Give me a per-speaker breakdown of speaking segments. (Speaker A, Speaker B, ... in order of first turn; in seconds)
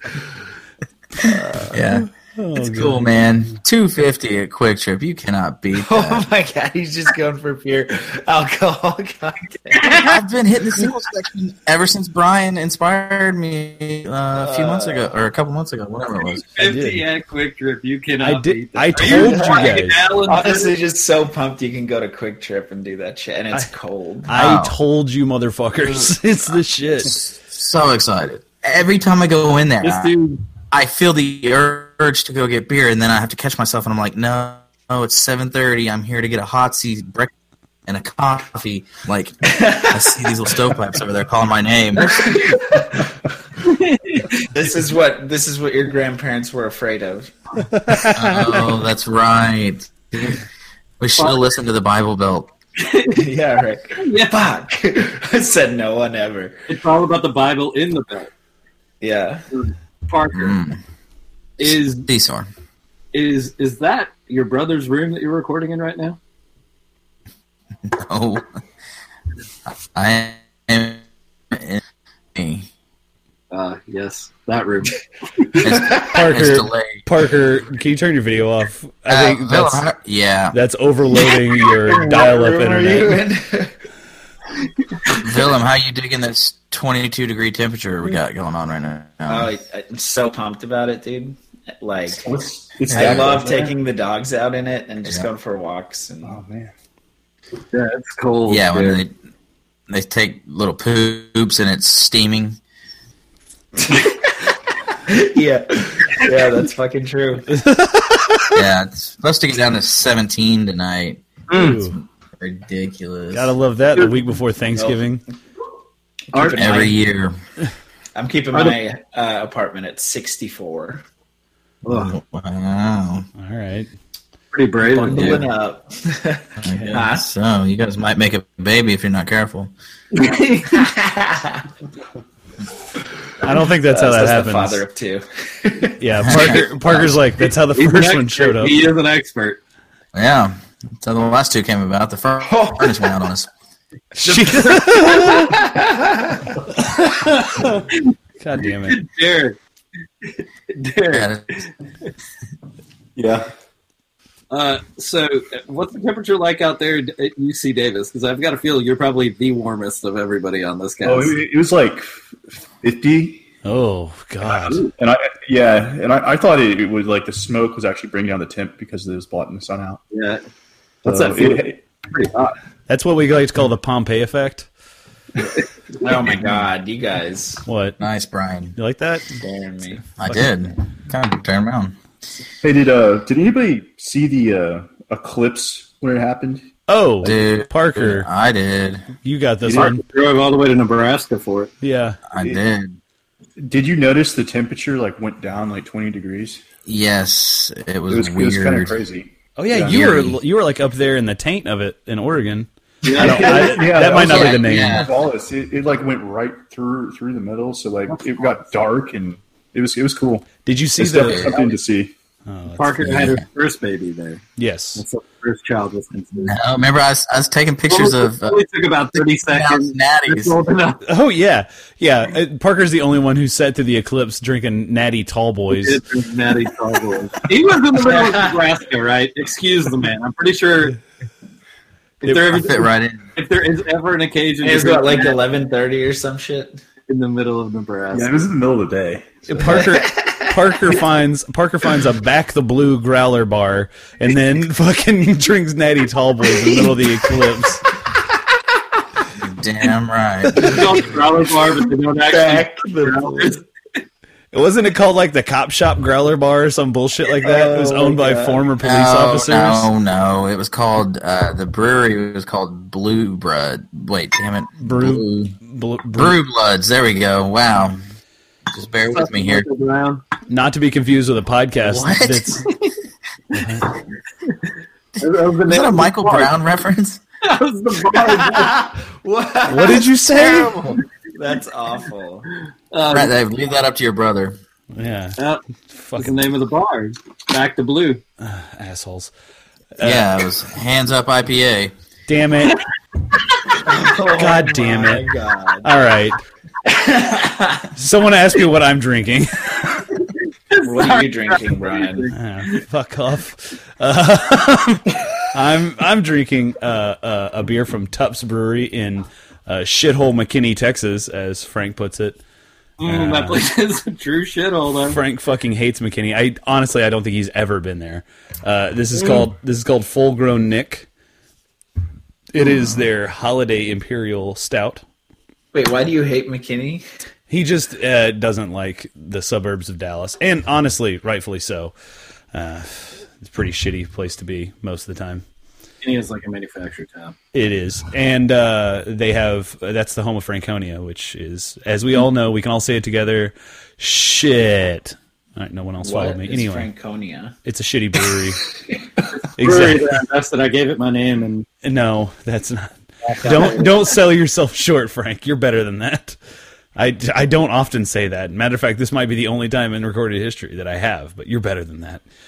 Speaker A: 1.2-1.8, 5.7-10.1, 14.4-15.1, 19.0-19.6, 20.3-24.3, 39.5-40.0, 42.0-43.0, 44.4-47.3, 53.1-56.5, 59.0-59.5, 81.6-83.7, 89.3-92.3, 92.9-96.4, 103.8-107.6, 114.7-115.0, 116.3-117.0, 118.2-121.0, 125.0-127.2, 130.7-131.7, 133.4-137.1, 142.4-143.0, 145.1-146.6, 176.0-177.6, 179.4-180.1, 203.1-203.7, 228.0-228.5, 234.6-236.8, 239.7-240.9, 252.3-253.6, 257.4-258.6, 278.1-282.5, 293.8-295.9, 296.9-297.9, 300.8-302.3, 325.7-327.0, 346.0-347.6
Speaker B: 1.7-6.3, 9.9-16.6, 24.3-24.8, 27.1-30.1, 30.7-37.3, 37.9-42.4, 48.1-50.4, 51.0-52.5, 60.3-60.8, 61.6-62.5, 67.9-68.5, 69.7-71.8, 72.3-72.7, 75.6-77.1, 79.1-80.6, 85.1-89.5, 92.9-93.4, 98.5-99.2, 99.9-102.6, 108.5-113.5, 116.5-117.4, 121.9-123.3, 126.6-129.7, 136.2-136.6, 140.1-143.5, 151.1-151.6, 178.0-178.8, 180.2-182.0, 187.2-189.1, 192.3-193.0, 196.9-199.0, 199.9-200.3, 204.2-205.1, 213.0-213.4, 216.4-218.6, 219.5-220.6, 232.5-233.3, 249.3-251.1, 258.8-265.6, 266.1-268.0, 268.7-269.6, 271.9-272.7, 275.6-277.2, 283.1-284.6, 290.0-291.9
Speaker C: 2.3-3.1, 16.6-17.0, 18.2-20.1, 24.3-27.1, 47.8-48.7, 75.9-79.8, 80.5-83.2, 107.5-108.6, 111.5-112.0, 113.3-115.2, 123.4-123.9, 133.4-134.8, 136.0-138.8, 144.2-145.6, 148.4-149.0, 163.7-164.8, 172.9-174.7, 177.7-178.0, 178.8-179.4, 180.2-180.5, 186.9-188.3, 189.2-190.0, 191.8-192.2, 199.6-205.1, 210.7-211.6, 212.5-213.2, 214.6-215.0, 221.1-226.0, 239.5-247.9, 254.5-259.9, 264.8-266.4, 270.5-272.6, 273.6-273.9, 279.7-280.9, 284.9-285.4, 285.9-286.3, 288.4-289.3, 290.0-290.3, 292.3-292.8, 294.3-295.3, 295.8-296.4, 297.9-300.1, 302.3-312.4, 313.0-313.6, 315.1-321.1, 322.5-325.0, 327.5-331.9, 332.5-335.4, 337.5-346.9, 347.6-348.7, 349.6-350.1, 351.8-356.4, 357.0-362.2
Speaker D: 16.6-20.7, 29.8-30.4, 43.6-44.4, 52.8-53.2, 54.0-54.4, 56.7-58.3, 59.5-60.6, 61.6-62.1, 63.1-66.2, 73.5-75.7, 97.7-99.0, 111.5-111.8, 116.3-116.8, 121.8-122.2, 124.5-125.5, 130.1-130.8, 137.4-139.6, 144.2-145.4, 147.0-149.6, 150.4-152.1, 154.5-161.4, 164.5-164.9, 170.1-170.4, 171.1-172.6, 189.7-191.7, 203.0-203.9, 212.8-214.4, 215.0-216.6, 217.9-221.0, 225.7-231.0, 232.2-235.4, 237.1-238.5, 250.6-253.6, 269.1-270.2, 275.2-276.6, 277.4-278.9, 282.9-283.3, 285.4-285.6, 286.2-288.2, 300.7-302.8, 313.0-315.2, 319.2-319.5, 336.0-337.4, 349.4-351.7, 353.2-353.9
Speaker E: 92.2-93.7, 96.2-96.7, 153.2-153.5, 161.0-163.5, 165.0-170.0, 171.1-171.8, 182.6-186.7, 189.6-189.9, 193.6-196.6, 198.1-200.2, 203.3-212.1, 238.1-239.8